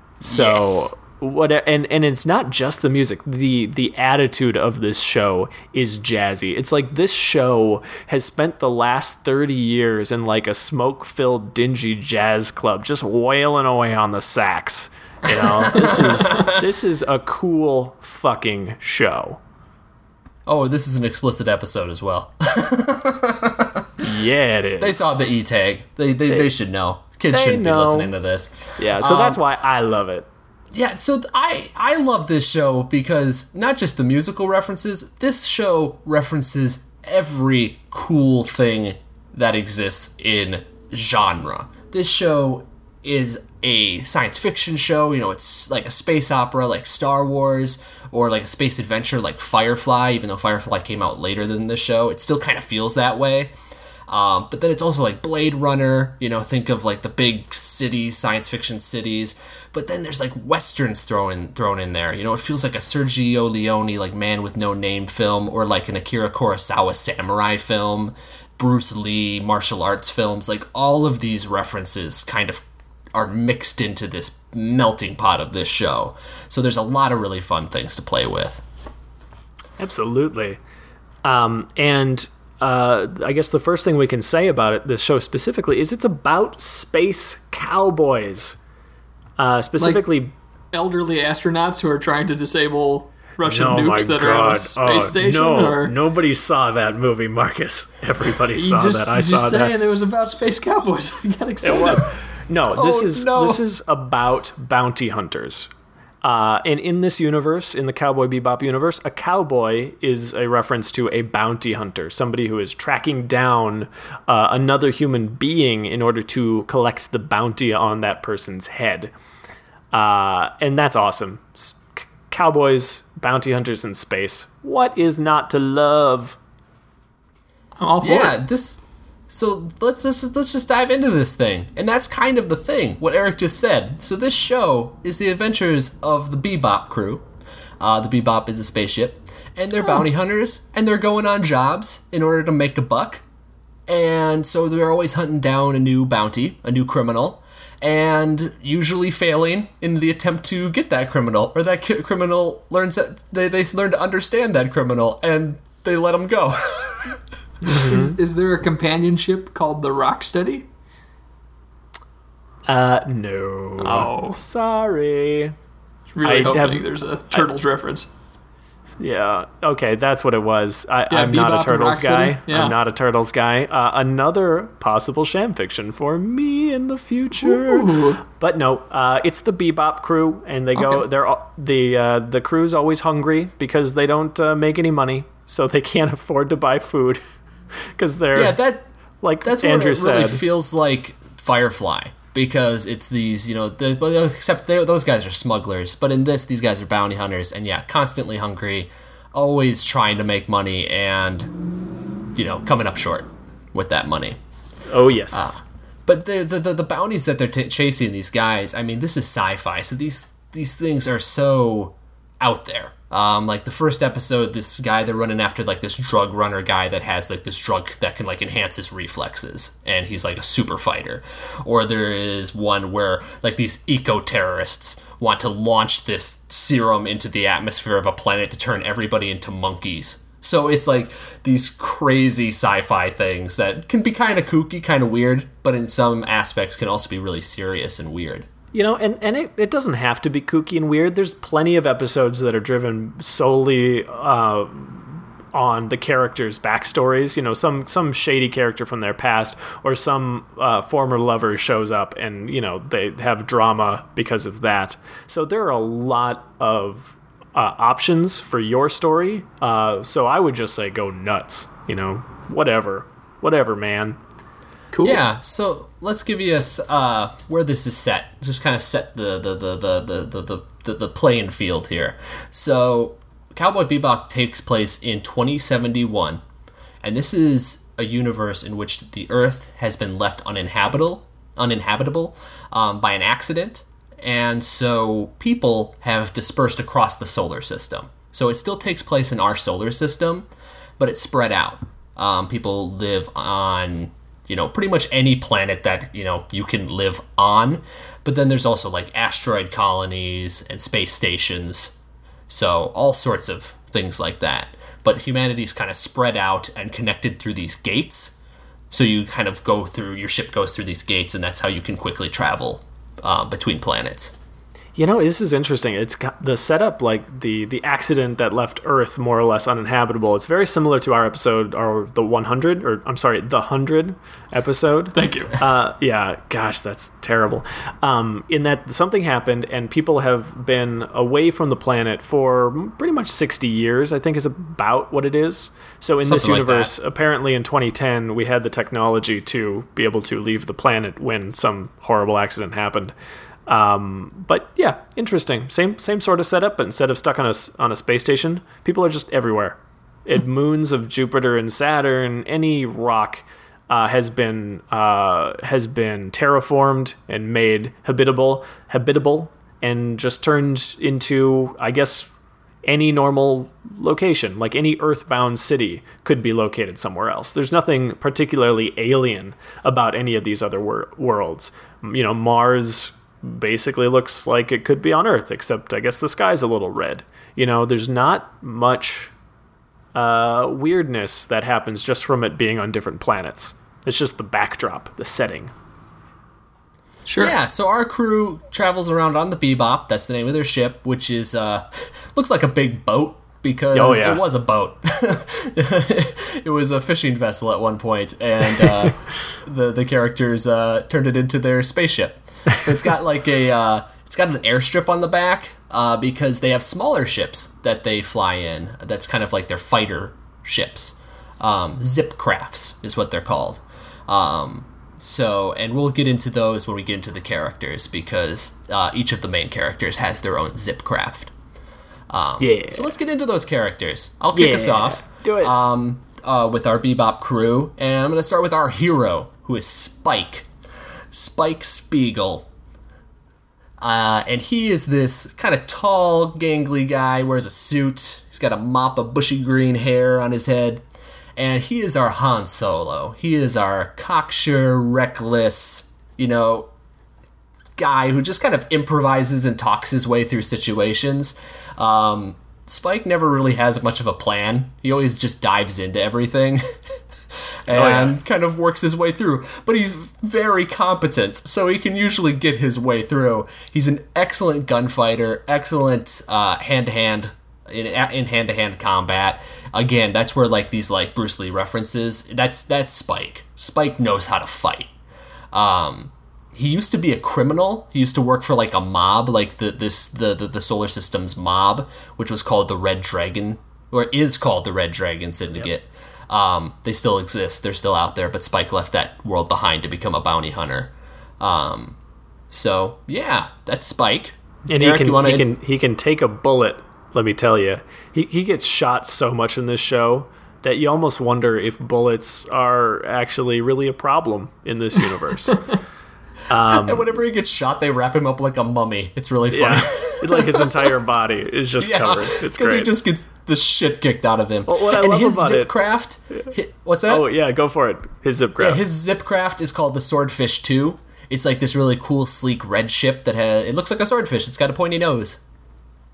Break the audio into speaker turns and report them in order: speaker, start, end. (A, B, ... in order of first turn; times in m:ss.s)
0:00.2-0:19.4 A
0:00.2-0:00.9 B
0:15.3-0:16.6 B
0:20.4-0:23.9 B
0:24.0-0:25.1 A
0:24.8-0:29.4 B
0:27.3-0:28.1 A
0:28.8-0:30.3 A
0:30.7-0:53.5 B
0:54.1-1:12.6 B
1:13.1-1:18.6 B
1:19.8-1:20.6 A
1:21.2-1:28.6 A
1:29.4-1:30.3 A
1:30.7-1:35.9 C
1:33.4-1:39.7 A
1:38.5-1:42.1 C
1:41.6-1:45.7 A
1:42.7-1:43.6 B
1:46.2-1:59.1 A
1:59.9-2:06.4 A
2:07.8-2:08.3 C
2:08.0-2:17.2 B
2:17.8-2:23.2 B
2:23.9-2:37.2 B
2:37.6-2:38.2 A
2:37.7-2:40.6 C
2:42.7-2:45.5 A
2:43.8-2:44.4 C
2:46.1-2:48.1 C
2:46.2-2:47.5 A
2:49.0-3:07.2 A
2:51.1-2:52.7 C
2:57.4-2:58.2 C
3:07.9-3:08.6 A
3:08.3-3:08.8 B
3:09.2-3:10.4 A
3:09.4-3:21.5 B
3:22.3-3:24.4 B
3:24.9-3:25.6 A
3:25.3-3:58.5 B
3:58.7-4:24.2 A
4:24.9-4:25.2 C
4:25.0-4:36.4 B
4:37.0-4:50.4 B
4:51.0-5:01.9 B
5:02.5-5:08.4 B
5:08.9-5:14.3 B
5:14.9-5:43.1 A
5:25.1-5:25.5 C
5:36.2-5:36.9 B
5:43.7-6:02.3 A
6:02.8-6:19.3 A
6:20.1-6:25.7 A
6:27.2-6:27.5 C
6:27.4-7:01.5 B
6:33.9-6:34.4 A
7:02.3-7:10.7 B
7:02.6-7:03.1 A
7:04.5-7:05.7 A
7:11.3-7:12.7 B
7:14.0-7:21.0 B
7:21.6-7:26.9 B
7:28.0-7:36.8 B
7:37.5-7:55.1 B
7:37.9-7:38.4 A
7:55.7-8:12.2 B
8:12.7-8:15.7 B
8:14.9-8:25.8 A
8:26.7-8:27.3 A
8:26.8-8:31.1 B
8:29.7-8:33.1 A
8:32.0-8:37.5 B
8:34.9-8:35.9 A
8:37.3-8:39.0 A
8:38.8-8:45.6 B